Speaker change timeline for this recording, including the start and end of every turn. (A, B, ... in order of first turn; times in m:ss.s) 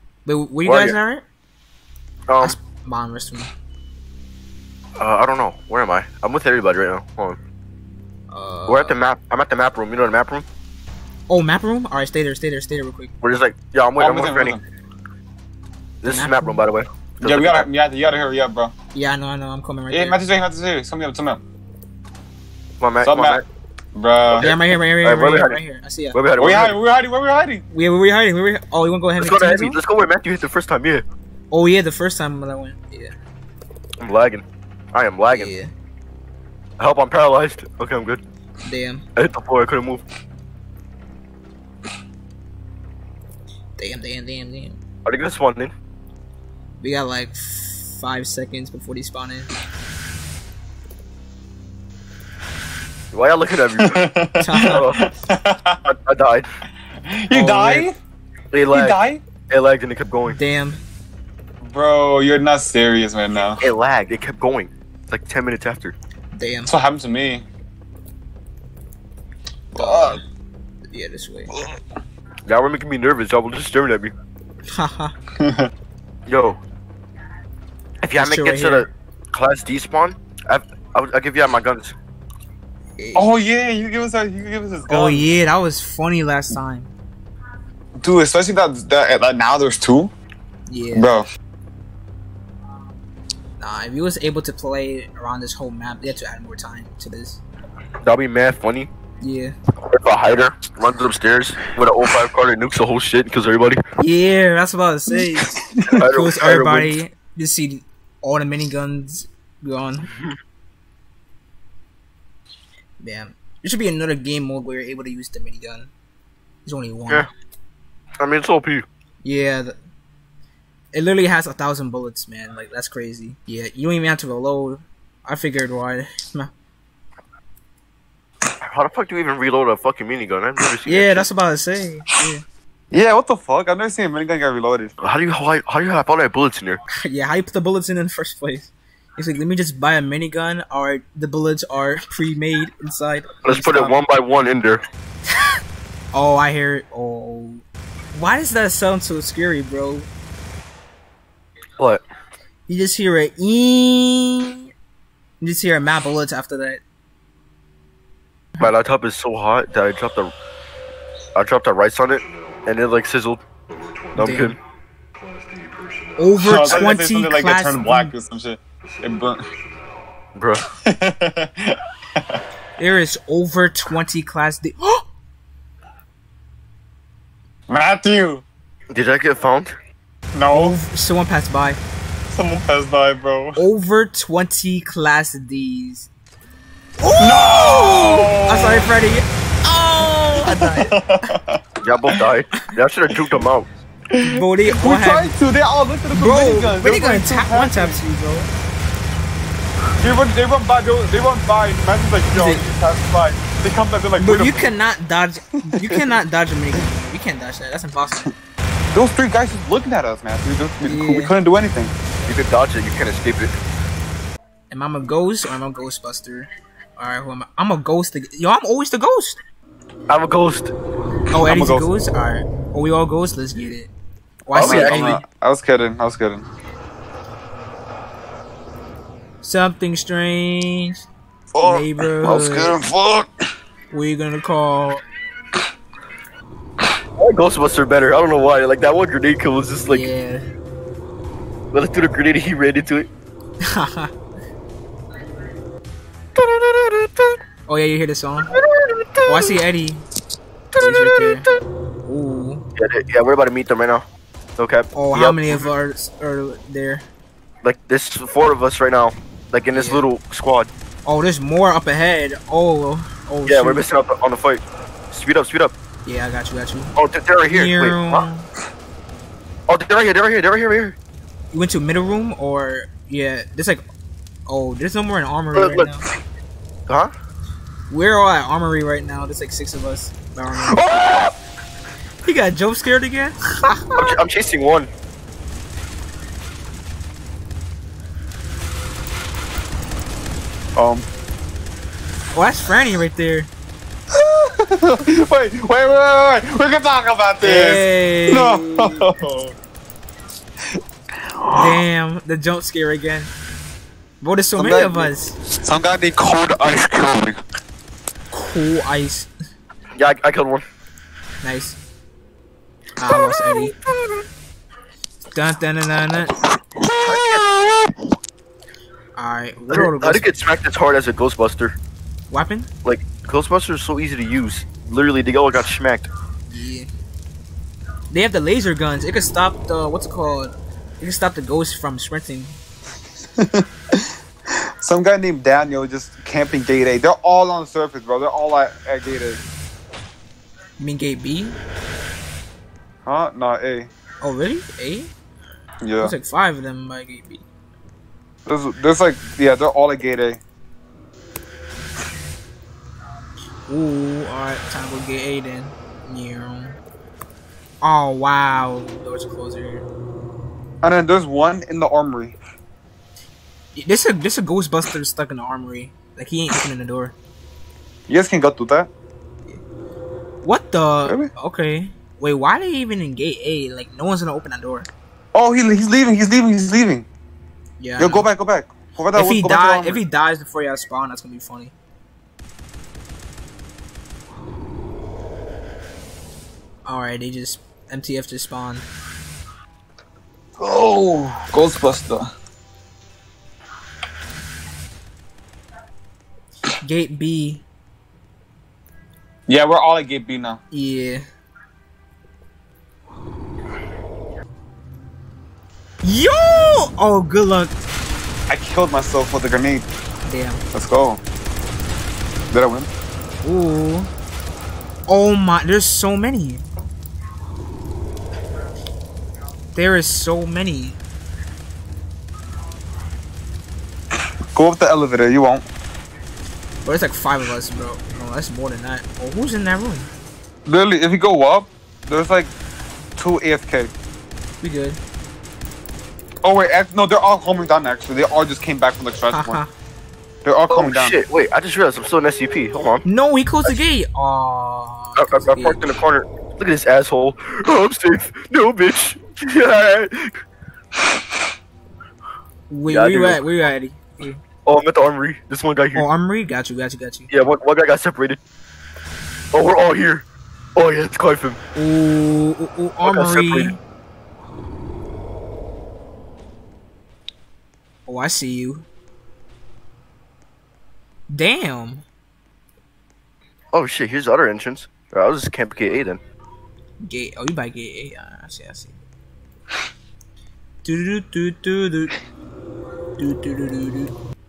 0:00.3-0:01.2 A
0:00.6-0:01.0 B
0:02.3-0:02.6 B
0:02.4-0:03.5 A
0:05.0-0:07.4 B
0:08.3-0:09.0 A
0:08.7-0:10.5 B
0:11.3-0:13.1 A
0:13.2-0:14.6 B
0:14.0-0:14.6 C
0:16.0-0:17.7 B
0:16.0-0:16.6 A
0:17.2-0:18.7 C
0:18.9-0:20.2 A
0:19.9-0:21.4 C
0:22.8-0:23.4 B
0:23.0-0:23.4 C
0:24.0-0:24.5 C
0:24.3-0:25.6 B
0:24.4-0:26.2 A
0:26.1-0:26.8 B
0:26.4-0:27.6 C
0:27.7-0:29.8 A
0:29.2-0:31.0 B
0:31.5-0:33.1 A
0:34.0-0:35.5 B
0:35.3-0:35.7 A
0:36.8-0:38.2 B
0:38.6-0:39.1 A
0:39.2-0:40.0 B
0:43.8-0:44.8 A
0:45.0-0:45.7 B
0:46.8-0:49.5 A
0:53.1-0:54.0 B
0:53.8-0:55.8 C
0:54.4-0:54.9 A
0:54.6-0:55.0 B
0:55.9-0:56.5 B
0:57.3-0:58.0 C
0:57.3-0:57.9 A
0:58.5-0:59.0 B
0:58.7-0:59.2 C
0:59.5-1:00.4 B
1:00.3-1:00.8 A
1:01.6-1:03.6 C
1:03.6-1:06.0 B
1:06.4-1:06.7 A
1:06.7-1:07.5 C
1:09.7-1:10.2 C
1:09.8-1:10.2 A
1:10.9-1:11.5 A
1:11.5-1:11.8 C
1:12.5-1:14.1 B
1:14.7-1:15.1 A
1:15.4-1:15.7 C
1:16.3-1:16.6 B
1:18.0-1:22.0 B
1:18.2-1:18.9 A
1:23.0-1:23.3 A
1:23.2-1:25.3 C
1:24.9-1:26.9 A
1:28.0-1:30.1 C
1:30.7-1:31.1 A
1:30.9-1:31.2 C
1:33.6-1:37.4 A
1:38.0-1:38.9 B
1:39.2-1:39.6 A
1:39.9-1:43.8 B
1:44.0-1:50.1 A
1:45.9-1:46.9 B
1:53.0-1:55.9 A
1:56.6-1:57.3 A
1:58.2-1:58.9 B
1:59.2-1:59.8 A
2:00.9-2:06.5 A
2:08.6-2:11.3 B
2:10.9-2:12.4 A
2:12.9-2:14.9 C
2:15.0-2:16.8 B
2:17.0-2:24.0 A
2:23.4-2:24.8 B
2:26.1-2:30.1 A
2:32.7-2:34.7 A
2:35.4-2:36.8 A
2:38.6-2:40.3 B
2:41.4-2:43.4 B
2:44.2-2:44.6 B
2:44.2-2:44.6 A
2:46.2-2:48.2 A
2:46.4-2:49.4 C
2:50.4-2:50.6 B
2:50.9-2:52.4 C
2:52.8-2:55.0 A
2:57.7-2:58.4 C
2:58.9-2:59.8 B
3:00.3-3:00.8 C
3:00.5-3:01.8 A
3:02.3-3:03.6 C
3:03.6-3:06.1 A
3:07.0-3:11.0 A
3:07.2-3:08.9 C
3:10.4-3:12.2 C
3:11.8-3:13.7 B
3:14.1-3:18.0 C
3:14.2-3:15.3 A
3:16.1-3:18.5 A
3:20.0-3:24.7 C
3:22.3-3:22.6 A
3:24.2-3:28.3 A
3:28.9-3:31.9 C
3:30.9-3:31.4 A
3:32.3-3:33.6 B
3:34.7-3:39.4 A
3:40.1-3:40.7 B
3:41.3-3:43.9 A
3:41.4-3:41.9 C
3:44.5-3:45.2 A
3:44.6-3:45.2 B
3:44.6-3:46.5 C
3:49.4-3:51.1 A
3:51.5-3:53.3 C
3:51.6-3:52.8 A
3:52.2-3:52.6 B
3:53.9-3:55.0 A
3:57.2-4:00.1 B
3:59.8-4:00.4 A
4:01.7-4:03.1 B
4:03.6-4:04.1 A
4:06.4-4:07.4 B
4:07.7-4:08.5 A
4:08.5-4:09.5 B
4:09.2-4:10.0 A
4:10.8-4:11.4 B
4:10.8-4:11.5 A
4:12.0-4:12.7 A
4:12.8-4:14.0 B
4:14.6-4:15.7 B
4:15.0-4:17.1 A
4:17.6-4:20.7 B
4:19.7-4:20.1 A
4:21.0-4:23.8 A
4:23.5-4:25.8 B
4:26.0-4:26.9 A
4:27.0-4:28.3 B
4:27.5-4:28.5 A
4:29.7-4:31.0 B
4:31.5-4:33.8 A
4:34.5-4:36.1 A
4:35.5-4:36.0 B
4:37.9-4:40.8 A
4:40.5-4:41.3 B
4:42.2-4:43.9 A
4:44.0-4:44.9 B
4:50.8-4:51.1 C
4:52.3-4:53.5 A
4:54.1-4:59.5 C
4:57.4-4:59.0 A
5:01.4-5:01.8 C
5:01.6-5:03.3 A
5:04.2-5:05.4 A
5:04.6-5:07.4 C
5:08.3-5:09.3 A
5:10.0-5:10.6 B
5:11.4-5:11.8 A
5:13.0-5:13.8 A
5:15.3-5:16.4 A
5:16.7-5:17.9 C
5:17.0-5:17.5 B
5:19.2-5:20.3 A
5:19.7-5:21.8 B
5:22.3-5:22.7 A
5:22.8-5:26.1 B
5:26.5-5:26.9 A
5:28.1-5:32.6 A
5:33.4-5:34.0 C
5:34.8-5:39.4 C
5:40.8-5:41.6 A
5:43.1-5:43.9 C
5:44.2-5:45.1 A
5:45.8-5:46.1 C
5:46.0-5:47.4 A
5:48.5-5:50.4 C
5:53.7-5:56.8 A
5:57.8-5:59.9 A
6:00.8-6:02.4 C
6:03.8-6:07.2 A
6:08.1-6:08.9 C
6:10.4-6:14.9 A
6:15.3-6:17.1 C
6:17.8-6:18.3 A
6:18.0-6:20.0 C
6:19.1-6:21.7 A
6:26.8-6:28.9 A
6:30.6-6:32.3 C
6:36.8-6:37.6 A
6:39.5-6:40.6 C
6:40.7-6:41.2 A
6:46.0-6:47.8 A
6:48.5-6:49.9 C
6:50.2-6:50.6 A
6:50.7-6:51.2 C
6:52.5-6:52.9 C
6:53.4-6:54.1 A
6:55.1-6:56.6 A
6:59.7-7:01.0 A
7:04.6-7:05.6 C
7:06.8-7:10.1 A
7:10.7-7:12.5 C
7:13.2-7:13.9 C
7:14.6-7:15.0 A
7:16.4-7:19.6 C
7:19.3-7:19.7 A
7:20.4-7:21.2 C
7:20.7-7:23.0 B
7:23.0-7:25.9 A
7:25.2-7:30.4 B
7:32.7-7:34.4 A
7:32.9-7:33.4 B
7:34.7-7:36.1 B
7:36.0-7:37.3 A
7:37.3-7:38.4 B
7:39.5-7:40.2 B
7:40.8-7:41.6 B
7:41.8-7:43.8 A
7:43.0-7:43.7 B
7:48.1-7:48.9 A
7:51.3-7:52.0 A
7:53.7-7:56.2 B
7:57.0-7:59.0 A
8:00.8-8:02.2 A
8:03.2-8:04.1 A